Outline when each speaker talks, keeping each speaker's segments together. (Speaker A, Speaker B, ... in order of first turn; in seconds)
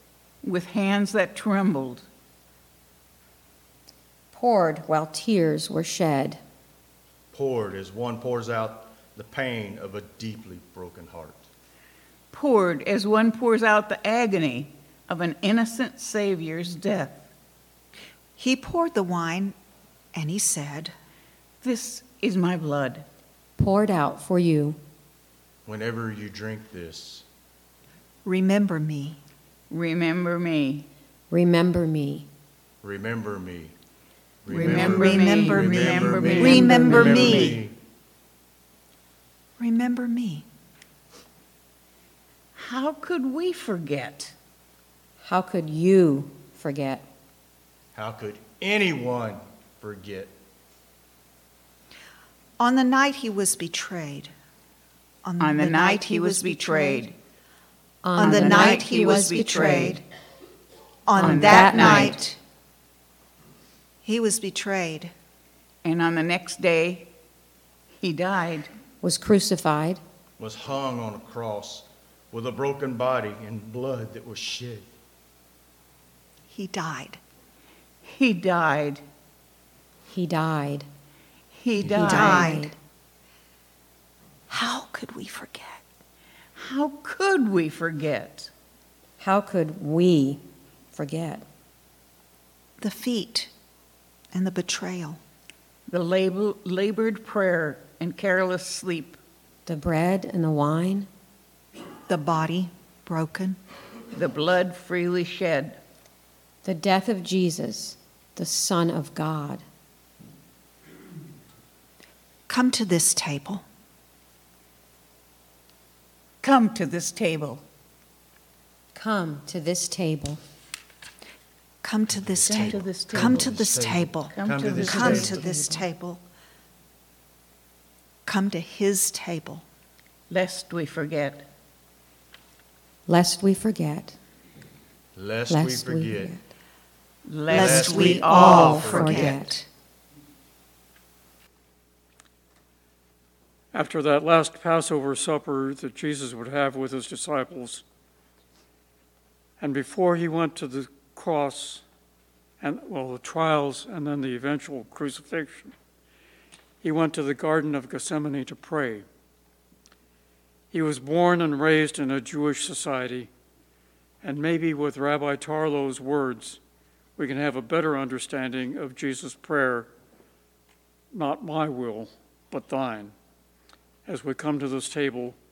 Speaker A: 0.4-2.0, 12.3-17.2, 21.6-23.0, 29.7-30.9, 34.5-37.6, 42.5-44.3, 55.4-57.1, 58.2-60.0, 61.2-62.1, 65.8-67.1, 68.0-68.7, 78.0-79.0, 81.5-82.6, 86.5-88.5, 95.9-99.2, 104.1-105.8, 116.4-117.6, 122.5-123.5, 124.3-125.1, 130.3-131.4, 137.2-138.8
Speaker B: 4.3-6.4, 23.6-24.8, 31.3-32.3, 36.4-37.6, 45.2-47.0, 58.0-60.0, 61.2-62.2, 69.0-70.0, 80.1-80.8, 81.9-82.8, 89.2-90.4, 90.9-91.4, 99.7-101.1, 106.6-109.6, 118.9-120.4, 124.7-125.8, 133.1-134.2, 135.5-136.4, 138.1-139.5
Speaker C: 7.3-11.4, 25.6-27.2, 32.8-33.7, 34.4-37.8, 47.9-50.3, 70.4-74.9, 81.8-82.2, 122.1-125.4, 135.2-136.3, 137.5-139.3
Speaker D: 18.4-19.5, 20.1-20.9, 28.2-29.2, 34.5-37.6, 39.6-40.5, 52.6-54.3, 55.2-57.0, 58.2-60.0, 61.0-62.4, 64.0-65.1, 76.5-77.2, 81.9-82.7, 84.5-85.8, 92.8-93.5, 94.3-95.2, 102.1-103.6, 112.5-113.6, 121.8-126.2, 128.2-129.6, 137.5-139.7
Speaker E: 143.7-147.8, 149.6-151.8, 152.6-155.7, 156.8-159.0, 160.7-163.3, 164.2-166.6, 167.2-169.9, 171.1-173.1, 174.1-175.3